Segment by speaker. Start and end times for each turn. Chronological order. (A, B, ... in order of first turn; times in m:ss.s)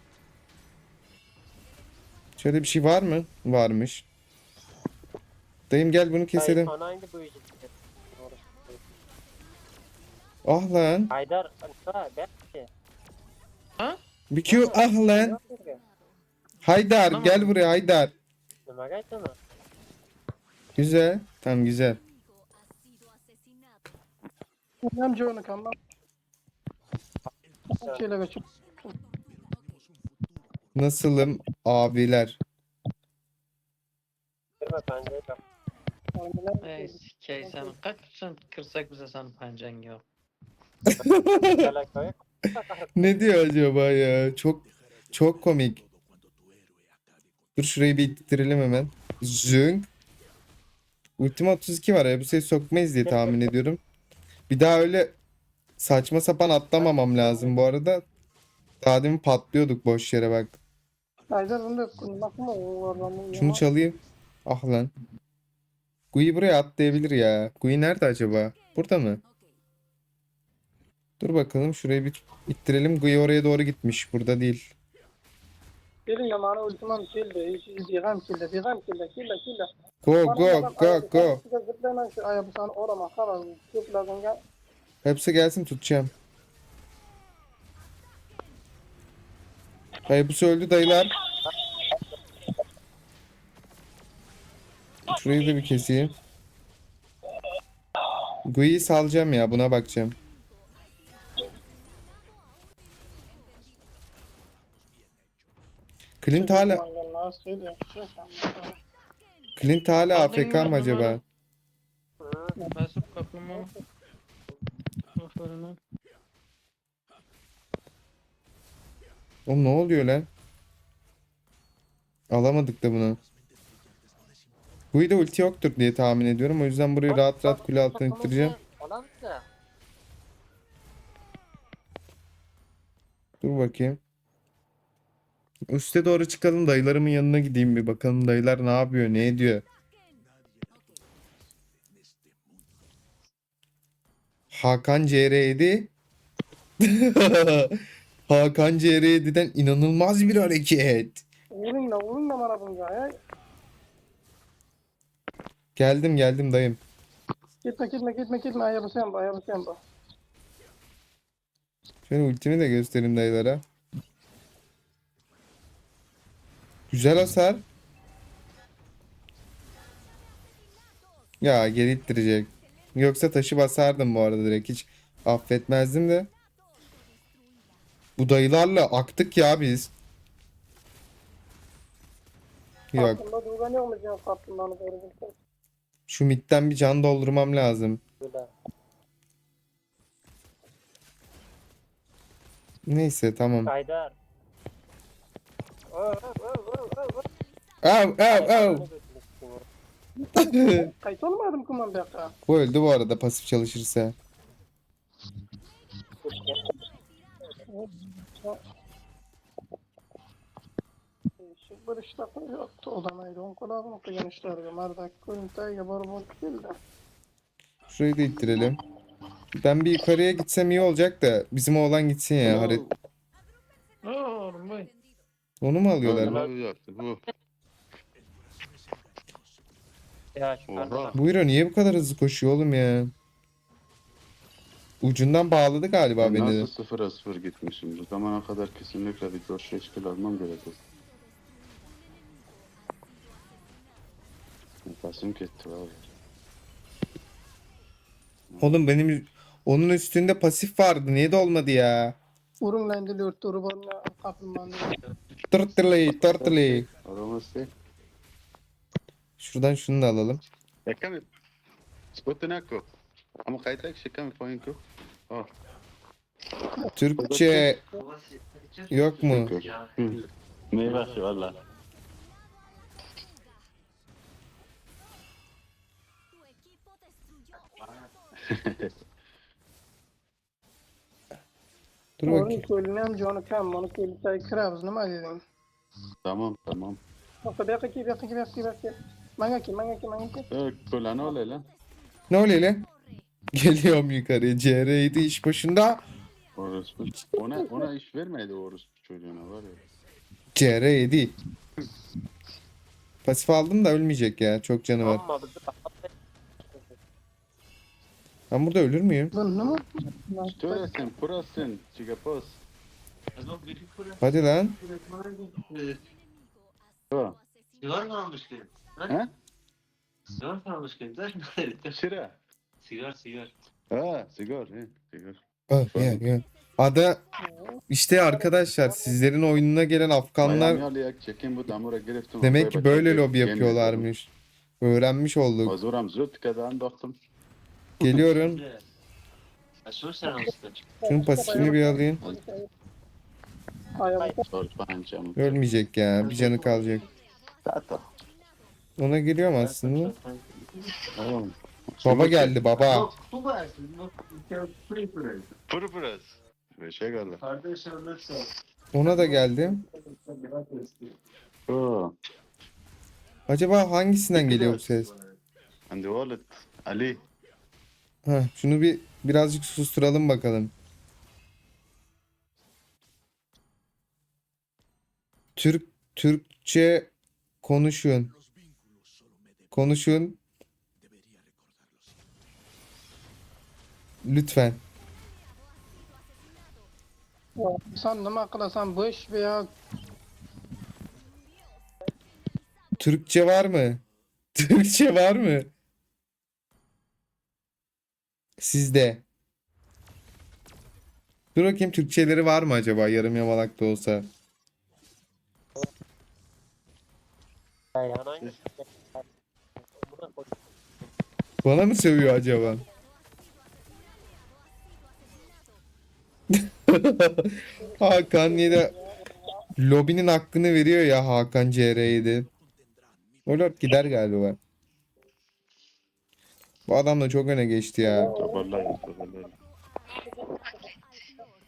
0:02.4-0:04.0 A
0:05.7-0:06.7 A
0:06.4-0:08.8 B
0:10.4-0:11.1 A
0:11.1-0:12.7 B
0:14.3-0:15.4 A
0:14.5-0:15.8 B
0:16.6-0:18.1 A
0:17.1-0:17.5 C
0:18.7-0:19.4 B
0:20.8-0:22.0 A
0:24.8-0:25.8 D
0:27.7-0:28.9 D
0:30.7-0:32.4 A
0:34.6-0:35.4 B
0:36.2-0:37.7 D
0:36.6-0:40.0 C
0:40.8-0:41.7 A
0:41.0-0:43.3 B
0:43.0-0:45.8 A
0:47.6-0:49.9 A
0:51.2-0:53.8 A
0:53.0-0:53.4 B
0:54.5-0:55.2 A
0:55.8-0:58.0 A
0:56.8-0:57.5 B
0:58.8-1:00.6 A
1:01.3-1:03.6 D
1:03.3-1:04.9 A
1:06.1-1:09.2 A
1:11.2-1:14.7 A
1:16.1-1:19.7 D
1:20.0-1:21.4 A
1:20.3-1:24.4 D
1:25.0-1:26.1 A
1:30.1-1:31.1 A
1:35.1-1:36.1 A
1:38.4-1:40.2 A
1:46.2-1:46.8 A
1:46.3-1:48.8 D
1:49.6-1:51.2 A
1:50.1-1:51.2 C
1:52.2-1:52.6 B
1:52.7-1:53.7 C
1:55.1-1:55.8 C
1:59.4-2:00.3 A
2:02.3-2:03.2 A
2:04.9-2:08.6 A
2:07.1-2:09.4 B
2:13.4-2:14.0 A
2:15.7-2:19.6 A
2:24.5-2:25.9 A
2:26.8-2:31.2 A
2:31.5-2:33.1 D
2:35.8-2:36.8 A
2:37.6-2:39.8 D
2:42.1-2:43.6 A
2:46.9-2:47.6 A
2:51.4-2:56.3 A
2:58.2-2:59.9 A
3:02.9-3:03.2 A
3:02.9-3:05.3 D
3:06.1-3:08.0 A
3:08.2-3:08.5 B
3:12.9-3:13.7 A
3:13.6-3:14.1 B
3:15.9-3:17.2 B
3:17.8-3:18.8 A
3:18.3-3:19.6 B
3:20.2-3:22.3 D
3:20.4-3:20.9 A
3:22.5-3:24.1 A
3:26.2-3:26.6 B
3:27.7-3:28.6 D
3:31.4-3:36.7 D
3:37.9-3:38.8 A
3:39.6-3:42.8 A
3:42.4-3:42.9 E
3:44.0-3:44.9 C
3:45.6-3:46.4 A
3:46.0-3:47.2 E
3:46.1-3:46.5 B
3:50.4-3:51.2 B
3:50.7-3:51.2 E
3:51.1-3:53.1 A
3:55.0-3:56.7 A
3:56.2-4:00.8 E
4:04.8-4:06.0 E
4:08.5-4:08.8 E
4:08.6-4:12.2 A
4:12.6-4:14.9 D
4:15.5-4:16.9 A
4:16.1-4:17.7 E
4:19.4-4:20.4 A
4:20.9-4:21.2 E
4:22.1-4:22.9 E
4:23.4-4:25.5 E
4:27.0-4:27.8 A
4:27.2-4:27.7 E
4:28.0-4:29.7 F
4:28.9-4:29.5 A
4:29.2-4:31.6 E
4:30.8-4:31.4 F
4:38.4-4:39.0 E
4:42.2-4:42.6 A
4:42.2-4:45.4 D
4:46.2-4:47.0 E
4:47.4-4:50.4 D
4:50.5-4:51.7 E
4:52.3-4:52.8 A
4:53.5-4:56.0 A
4:56.6-4:59.8 E
4:57.4-4:57.8 D
5:00.5-5:01.3 A
5:03.2-5:05.2 A
5:05.0-5:06.1 B
5:08.5-5:09.3 A
5:09.3-5:11.0 D
5:10.6-5:12.6 E
5:13.4-5:16.0 F
5:14.2-5:14.8 A
5:17.1-5:17.4 E
5:17.8-5:19.1 F
5:20.4-5:22.0 F
5:21.8-5:22.4 E
5:22.8-5:23.5 F
5:23.9-5:25.4 E
5:25.7-5:27.2 A
5:25.9-5:26.2 E
5:27.4-5:27.8 D
5:27.9-5:30.8 A
5:28.1-5:29.2 B
5:30.4-5:34.1 E
5:32.4-5:34.3 A
5:34.8-5:35.8 A
5:35.6-5:37.2 E
5:38.0-5:38.6 A
5:39.8-5:40.8 F
5:41.0-5:42.7 D
5:41.1-5:42.2 A
5:44.0-5:44.4 D
5:44.5-5:45.6 E
5:45.4-5:47.1 A
5:46.2-5:47.0 F
5:47.6-5:48.1 E
5:49.0-5:50.1 A
5:49.6-5:50.5 F
5:51.1-5:52.6 E
5:52.0-5:53.1 A
5:52.8-5:55.5 F
5:55.6-5:57.4 E
5:57.4-5:58.5 F
5:58.9-5:59.8 A
5:59.0-5:59.3 F
6:00.1-6:01.1 F
6:01.7-6:02.1 E
6:03.5-6:05.1 A
6:05.9-6:07.2 E
6:08.2-6:10.7 A
6:15.6-6:17.1 A
6:17.6-6:18.3 A
6:19.7-6:20.4 A
6:24.2-6:24.8 A
6:27.6-6:29.7 D
6:33.0-6:34.0 A
6:34.5-6:35.7 A
6:38.6-6:39.2 A
6:41.5-6:44.3 A
6:48.0-6:49.2 B
6:49.9-6:50.6 B
6:51.6-6:52.8 A
6:56.5-6:58.9 A
6:57.8-6:59.6 D
6:59.8-7:02.5 A
7:03.4-7:04.6 A
7:06.9-7:08.3 A
7:08.0-7:08.7 D
7:08.3-7:09.5 E